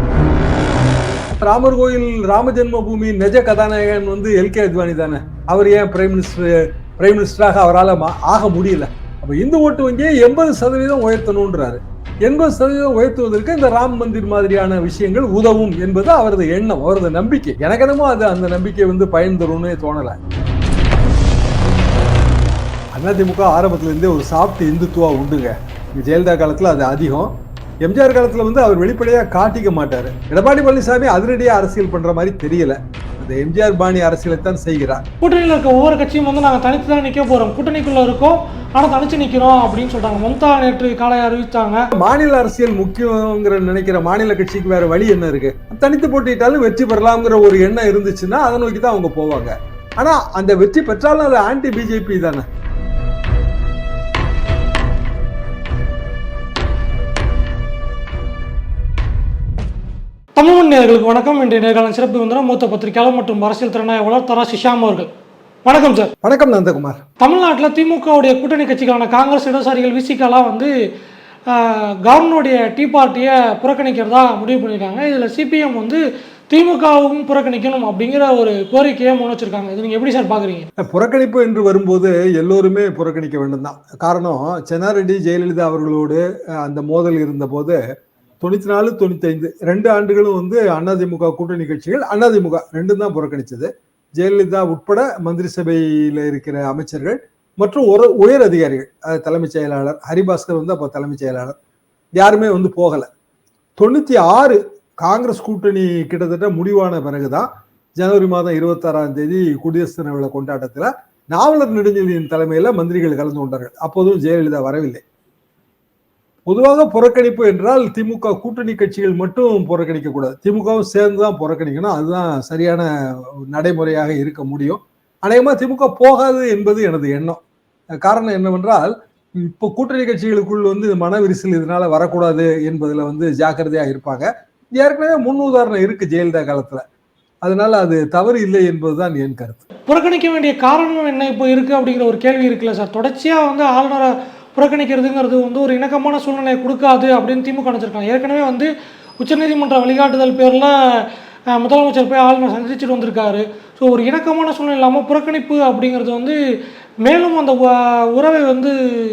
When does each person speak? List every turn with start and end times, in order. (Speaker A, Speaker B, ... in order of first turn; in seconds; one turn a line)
Speaker A: 1.3-20.2
Speaker A: 22.9-35.0
Speaker B: 35.2-41.9
Speaker A: 41.9-52.5
Speaker B: 60.4-65.1
Speaker B: 65.7-66.1
Speaker A: 66.2-67.0
Speaker B: 67.2-70.7
Speaker B: 71.5-80.7
Speaker A: 80.8-87.8
Speaker A: 88.4-101.5
Speaker A: 102.2-103.1
Speaker A: 103.8-115.0
Speaker A: 116.5-127.4
Speaker A: 128.0-136.8
Speaker A: 137.4-139.6
Speaker B: 139.9-156.4
Speaker B: 157.0-158.8